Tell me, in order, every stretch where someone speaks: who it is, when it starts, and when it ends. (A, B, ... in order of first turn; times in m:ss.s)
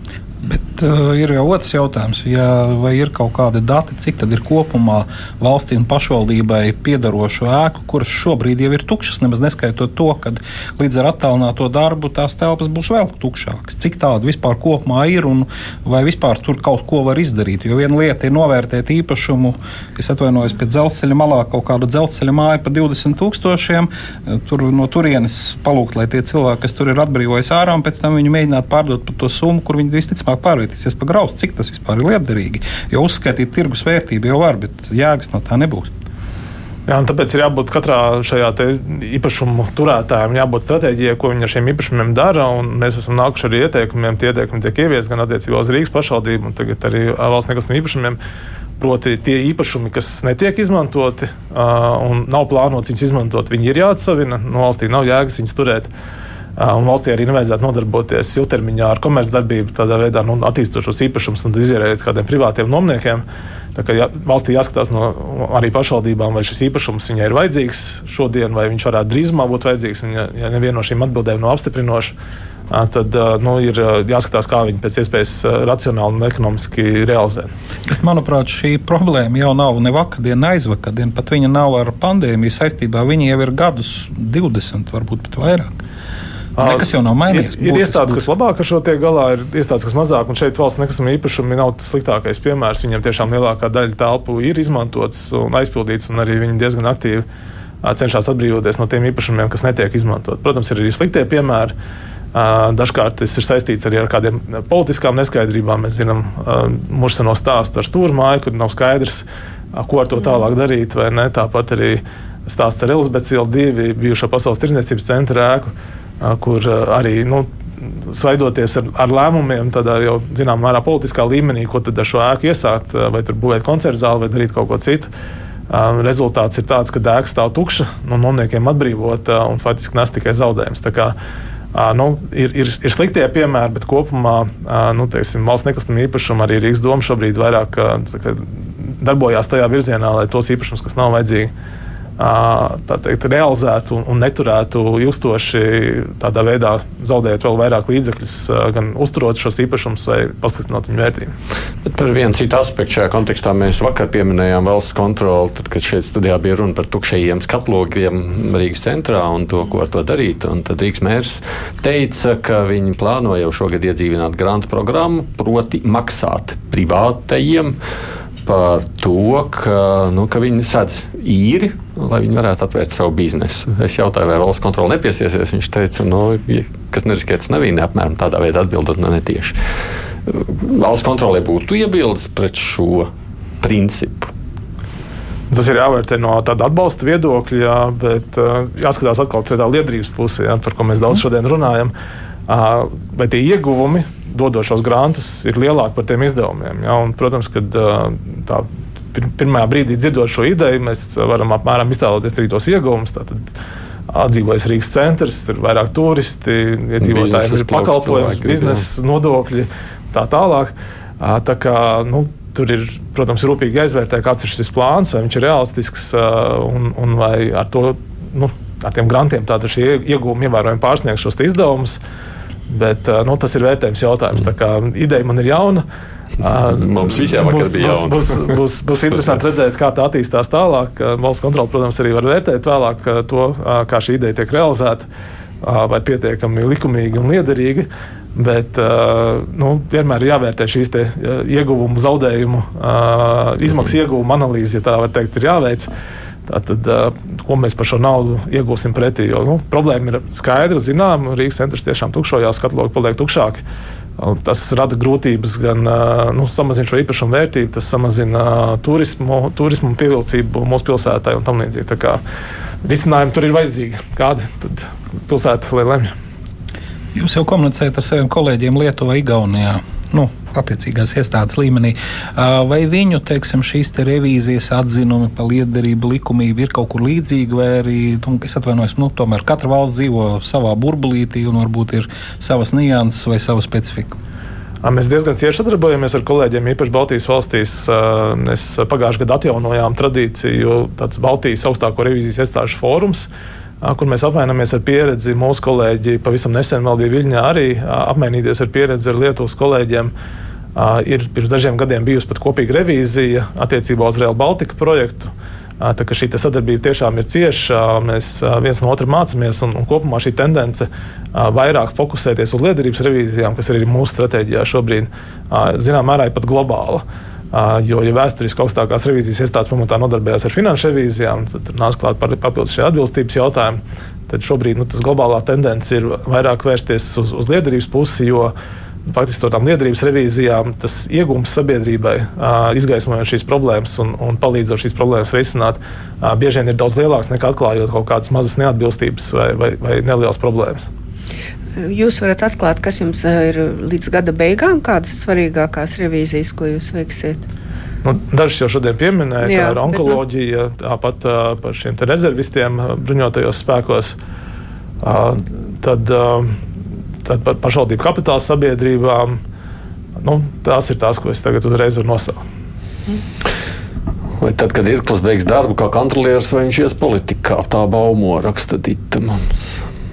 0:00.4-0:35.9 A
0:36.9-0:48.2 B
0:48.8-0:55.9 B
0:56.6-1:03.2 B
1:03.7-1:12.1 B
1:12.7-1:17.5 B
1:17.9-1:25.8 A
1:26.6-1:37.2 B
1:26.6-1:28.2 A
1:37.8-1:41.7 B
1:42.3-2:05.1 B
2:05.7-2:11.1 B
2:11.7-2:21.5 B
2:22.2-2:31.3 B
2:31.8-2:47.8 C
2:48.4-2:59.6 C
3:00.3-3:03.1 C
3:03.6-3:04.3 C
3:05.5-3:11.9 B
3:12.5-3:23.5 B
3:24.1-3:42.0 B
3:27.0-3:28.8 C
3:42.7-3:45.8 B
3:46.4-3:55.0 B
3:46.6-3:48.5 C
3:55.6-4:05.9 B
4:06.5-4:13.6 B
4:14.2-4:22.2 B
4:22.8-4:26.1 B
4:27.1-4:44.2 A
4:44.8-4:53.3 B
4:53.8-5:00.1 B
5:00.7-5:28.5 B
5:29.0-5:40.9 B
5:41.8-5:47.4 D
5:48.0-5:54.2 B
5:49.4-5:50.2 D
5:55.0-5:56.6 B
5:57.2-5:59.4 B
6:00.2-6:02.4 B
6:04.4-6:09.8 C